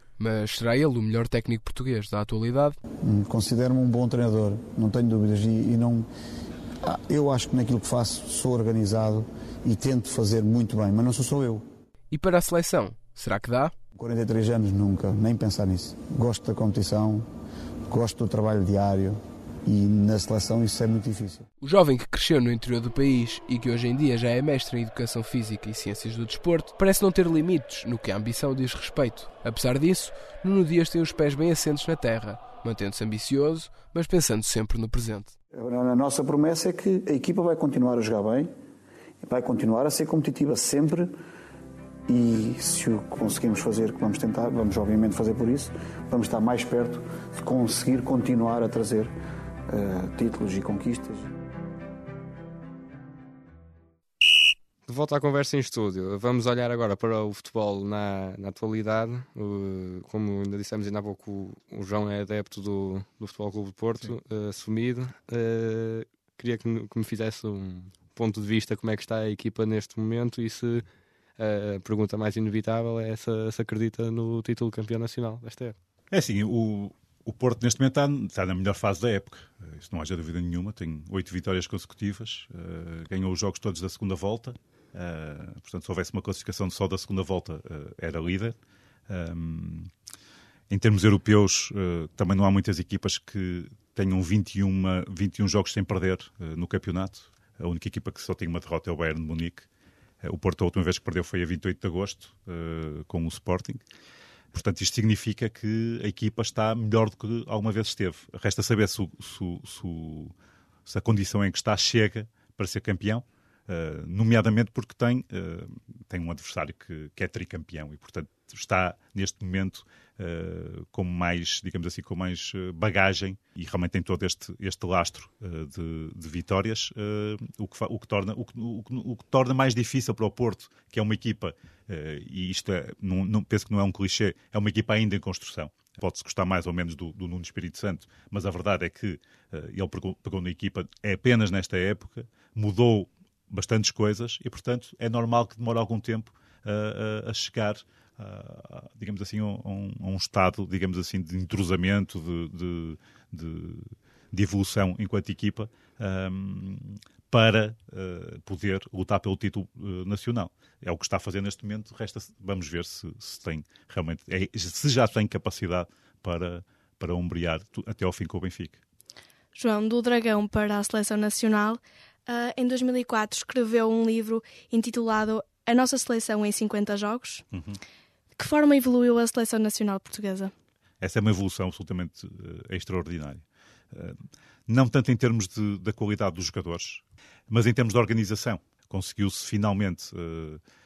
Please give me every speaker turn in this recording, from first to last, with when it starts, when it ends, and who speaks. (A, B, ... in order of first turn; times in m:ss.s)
0:00.2-0:02.8 A
0:03.0-0:06.1 B
0:06.8-0:11.6 B
0:12.1-0:13.7 A
0:14.0-0:17.3 B
0:17.9-0:21.4 B
0:21.6-0:35.3 A
0:35.5-0:38.5 B
0:39.2-0:41.1 B
0:42.1-0:49.1 B
0:49.7-0:51.3 B
0:54.8-1:10.8 C
1:11.4-1:15.7 C
1:16.1-1:28.6 D
1:29.1-1:29.9 D
1:30.7-1:39.7 D
1:40.2-1:43.8 D
1:44.5-1:50.3 D
1:50.8-2:48.8 D
2:49.5-2:57.4 E
2:57.5-2:57.8 D
2:58.4-3:00.5 E
3:01.0-3:10.6 D